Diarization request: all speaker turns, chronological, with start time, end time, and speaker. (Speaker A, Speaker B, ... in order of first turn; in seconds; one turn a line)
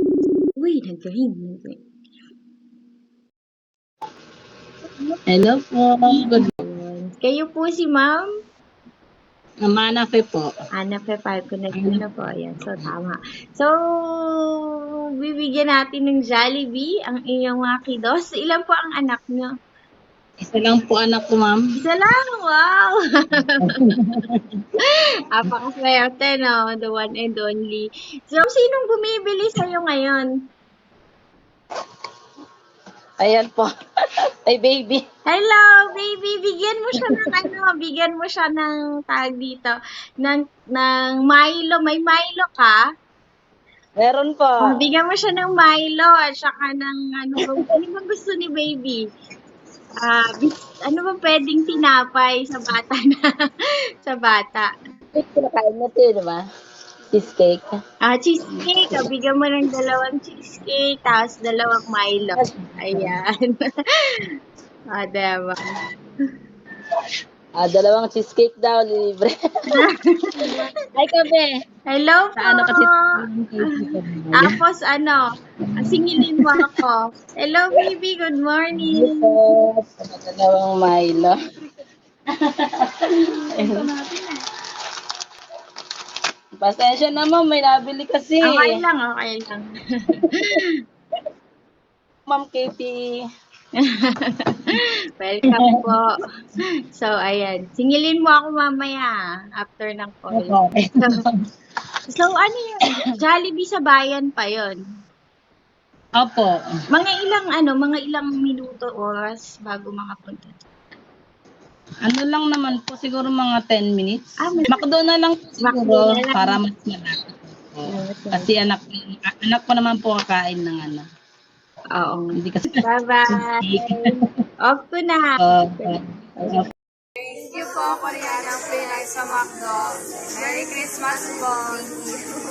Speaker A: 0.6-1.8
Speaker B: 5.3-6.5
Speaker A: 6.1-8.3
Speaker B: 9.7-10.5
Speaker A: 10.7-14.6
Speaker B: 11.7-12.0
Speaker A: 15.2-19.5
Speaker B: 20.4-21.6
Speaker A: 21.8-23.9
Speaker B: 23.6-24.6
Speaker A: 24.8-30.3
Speaker B: 33.2-33.7
Speaker B: 34.5-35.0
Speaker A: 35.3-42.8
Speaker B: 37.1-37.4
Speaker B: 44.0-44.8
Speaker A: 44.6-49.0
Speaker A: 50.0-54.7
Speaker B: 55.1-56.4
Speaker B: 57.1-57.8
Speaker A: 58.0-64.3
Speaker B: 58.5-59.1
Speaker B: 62.4-63.2
Speaker A: 64.9-65.7
Speaker B: 67.6-69.3
Speaker A: 69.7-70.7
Speaker B: 70.5-71.6
Speaker A: 71.9-73.1
Speaker B: 72.4-74.6
Speaker A: 73.7-75.3
Speaker B: 75.7-76.7
Speaker A: 75.8-79.3
Speaker B: 78.8-81.4
Speaker B: 82.4-83.9
Speaker A: 83.2-84.4
Speaker B: 86.5-88.8
Speaker A: 88.4-90.7
Speaker B: 90.2-90.6
Speaker B: 92.3-93.1
Speaker A: 93.8-96.2
Speaker B: 95.6-95.9
Speaker A: 96.9-101.2
Speaker B: 100.3-101.4
Speaker A: 102.1-104.8
Speaker B: 106.2-106.6
Speaker A: 106.9-110.6
Speaker B: 112.0-121.0
Speaker A: 114.4-114.8
Speaker A: 115.6-116.6
Speaker A: 117.9-118.5
Speaker A: 122.0-126.7
Speaker B: 122.4-122.8
Speaker B: 123.3-124.1
Speaker B: 125.4-126.7
Speaker C: 127.5-132.1